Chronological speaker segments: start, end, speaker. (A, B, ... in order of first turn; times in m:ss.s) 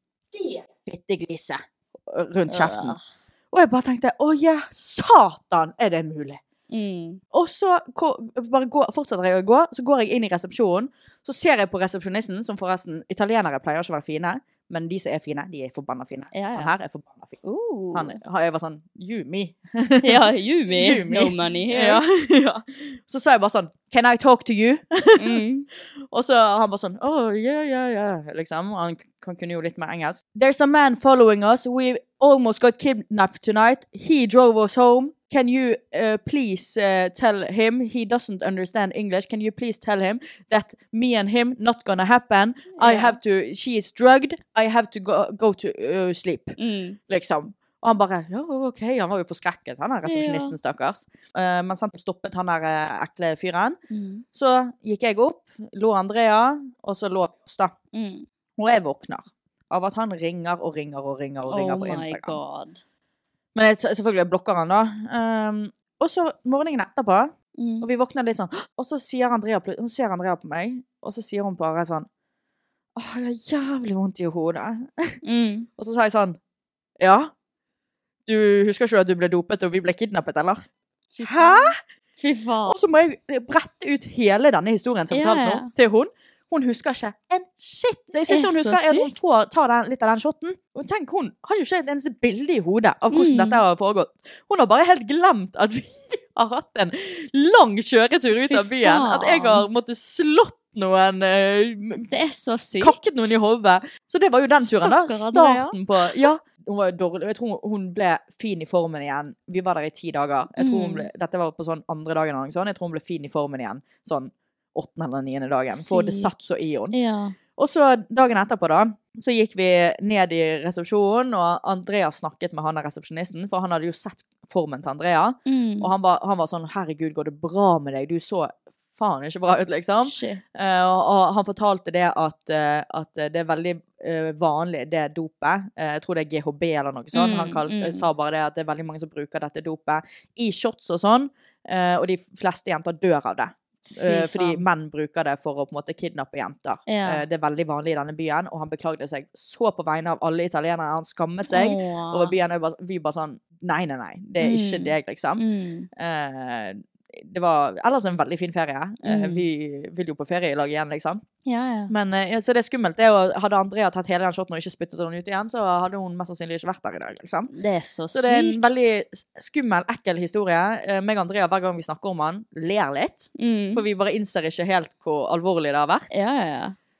0:00.3-0:03.0 A
0:02.5-0:03.0 B
0:03.5-0:06.4 A
0:06.7-0:07.2 B
0:07.3-0:17.4 A
0:16.3-0:16.7 B
0:17.4-0:18.1 B
0:17.9-0:25.4 A
0:20.0-0:22.0 B
0:25.2-0:25.6 B
0:26.1-0:46.6 A
0:42.8-0:43.2 B
0:46.6-0:47.0 B
0:47.1-0:53.8 A
0:50.0-0:50.5 B
0:53.9-0:54.2 B
0:54.3-0:57.7 A
0:57.9-0:58.2 B
0:58.6-1:02.4 A
1:01.5-1:02.8 B
1:03.5-1:12.1 A
1:07.6-1:07.9 B
1:13.0-1:15.2 A
1:15.2-1:15.7 B
1:15.8-1:16.4 A
1:17.0-1:17.3 A
1:18.3-1:20.6 A
1:21.1-1:22.8 B
1:21.2-1:21.8 A
1:22.7-1:42.1 A
1:25.1-1:25.7 B
1:28.3-1:29.3 B
1:33.1-1:33.6 B
1:38.5-1:39.6 B
1:42.1-1:43.0 B
1:42.8-1:56.9 A
1:44.6-1:46.3 B
1:50.6-1:51.1 B
1:55.7-1:56.3 B
1:56.9-1:57.3 B
1:57.6-2:35.4 A
2:05.5-2:05.9 B
2:10.0-2:10.4 B
2:17.1-2:18.0 B
2:23.9-2:24.6 B
2:26.9-2:27.2 B
2:31.5-2:32.3 B
2:34.4-2:35.9 B
2:36.0-2:41.2 A
2:39.0-2:39.4 B
2:41.4-2:41.9 B
2:41.9-2:47.5 A
2:47.5-2:48.8 B
2:48.1-2:56.2 A
2:53.4-2:53.8 B
2:56.1-2:56.8 B